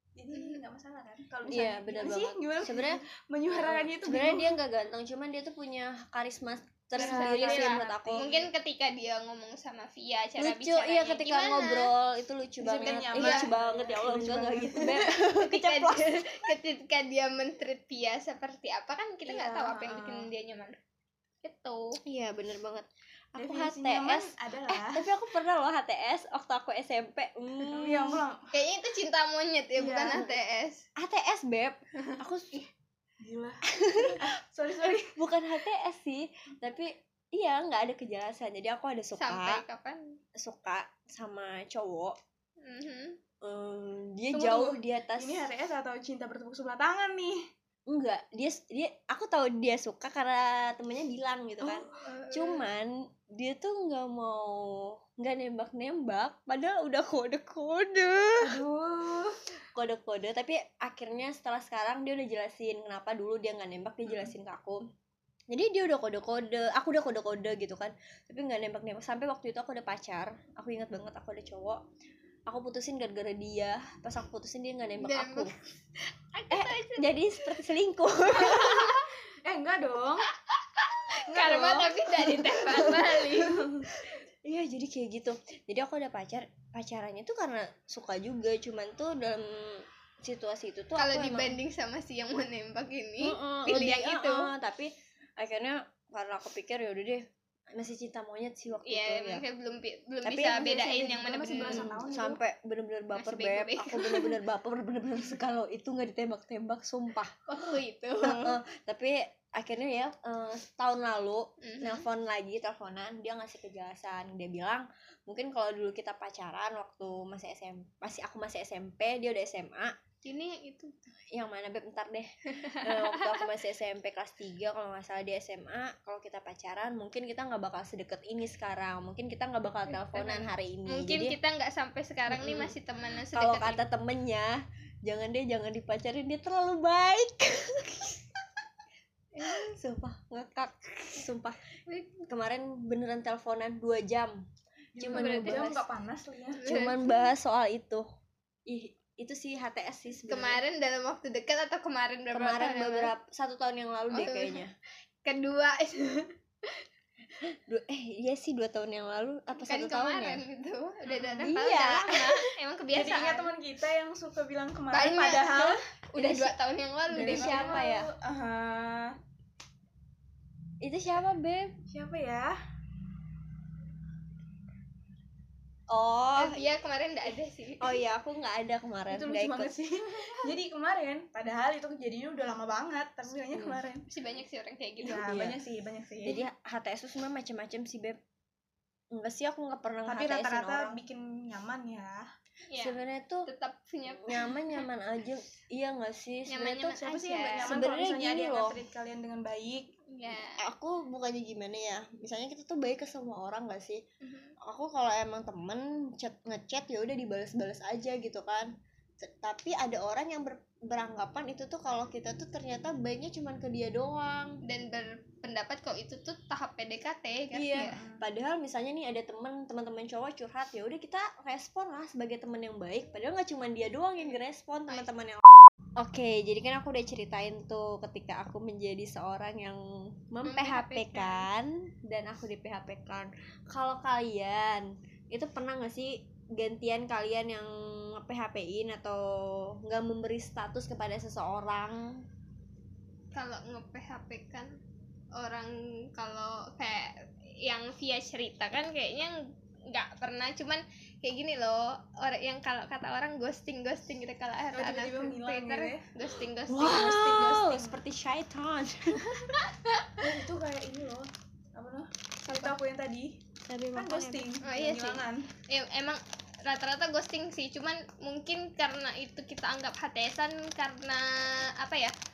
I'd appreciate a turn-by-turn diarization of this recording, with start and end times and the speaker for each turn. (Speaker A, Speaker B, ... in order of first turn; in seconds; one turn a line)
Speaker A: 0.2-4.6
Speaker B: 1.5-3.0
Speaker B: 3.5-8.3
Speaker A: 7.0-8.5
Speaker C: 7.0-11.9
Speaker B: 10.4-16.5
Speaker A: 12.6-15.1
Speaker C: 12.8-13.5
Speaker C: 15.2-20.8
Speaker A: 19.3-20.3
Speaker C: 21.4-22.0
Speaker B: 22.1-28.2
Speaker A: 23.4-25.1
Speaker A: 27.6-28.5
Speaker C: 28.5-30.9
Speaker A: 29.8-30.3
Speaker B: 31.0-32.7
Speaker A: 33.2-35.2
Speaker B: 33.7-39.6
Speaker C: 39.2-40.2
Speaker B: 40.4-42.2
Speaker C: 42.6-43.2
Speaker B: 43.4-45.5
Speaker A: 44.3-47.4
Speaker B: 47.9-58.6
Speaker A: 51.6-52.1
Speaker C: 52.0-52.5
Speaker A: 58.4-59.4
Speaker B: 59.7-64.8
Speaker B: 65.5-71.8
Speaker B: 72.5-75.5
Speaker C: 75.0-75.6
Speaker C: 76.3-77.2
Speaker B: 76.5-79.0
Speaker C: 78.6-79.0
Speaker A: 79.4-80.3
Speaker C: 80.5-83.6
Speaker A: 81.3-81.9
Speaker B: 82.2-83.2
Speaker A: 83.4-83.9
Speaker B: 83.9-91.6
Speaker C: 91.0-94.5
Speaker B: 93.2-99.4
Speaker C: 98.9-102.0
Speaker B: 100.2-100.6
Speaker A: 100.5-102.4
Speaker B: 101.6-107.3
Speaker C: 103.2-104.3
Speaker C: 107.5-108.6
Speaker B: 108.2-120.0
Speaker C: 111.6-112.0
Speaker C: 120.2-120.9
Speaker B: 121.3-131.4
Speaker C: 122.5-123.5
Speaker C: 130.0-133.8
Speaker B: 132.3-132.7
Speaker B: 133.3-138.3
Speaker C: 139.3-139.8
Speaker B: 139.4-141.6
Speaker C: 141.9-142.2
Speaker B: 142.3-144.4
Speaker A: 145.0-146.6
Speaker B: 145.0-145.8
Speaker C: 145.1-145.8
Speaker C: 146.6-147.3
Speaker B: 146.6-148.1
Speaker B: 148.7-150.6
Speaker C: 150.3-153.1
Speaker B: 152.3-154.7
Speaker C: 154.1-154.6
Speaker C: 155.2-156.3
Speaker B: 157.5-160.4
Speaker C: 159.6-163.5
Speaker A: 161.1-161.6
Speaker B: 161.4-162.3
Speaker A: 162.9-165.8
Speaker C: 164.9-167.8
Speaker B: 166.2-166.5
Speaker B: 167.1-168.1
Speaker A: 167.1-169.2
Speaker B: 170.8-171.8
Speaker A: 171.9-172.6
Speaker B: 175.9-176.6
Speaker C: 176.4-178.0
Speaker B: 177.8-179.7
Speaker A: 179.1-184.1
Speaker B: 183.5-183.8
Speaker C: 184.1-185.3
Speaker A: 185.0-186.4
Speaker B: 185.2-185.6
Speaker B: 186.2-188.2
Speaker B: 189.1-191.0
Speaker A: 190.1-192.3
Speaker C: 192.7-194.8
Speaker B: 192.8-193.5
Speaker B: 194.1-197.1
Speaker C: 196.5-197.7
Speaker A: 197.0-199.9
Speaker B: 197.6-198.8
Speaker C: 200.1-200.6
Speaker B: 200.6-204.0
Speaker C: 204.2-204.5
Speaker B: 204.6-214.6
Speaker C: 214.6-217.9
Speaker B: 217.5-242.2
Speaker A: 217.8-218.2
Speaker C: 230.4-231.5
Speaker C: 243.3-244.8
Speaker C: 245.3-257.0
Speaker A: 254.7-256.1
Speaker B: 256.7-259.3
Speaker A: 256.8-258.0
Speaker C: 259.3-260.2
Speaker A: 260.2-263.4
Speaker B: 263.6-264.5
Speaker A: 263.9-265.5
Speaker C: 264.6-272.1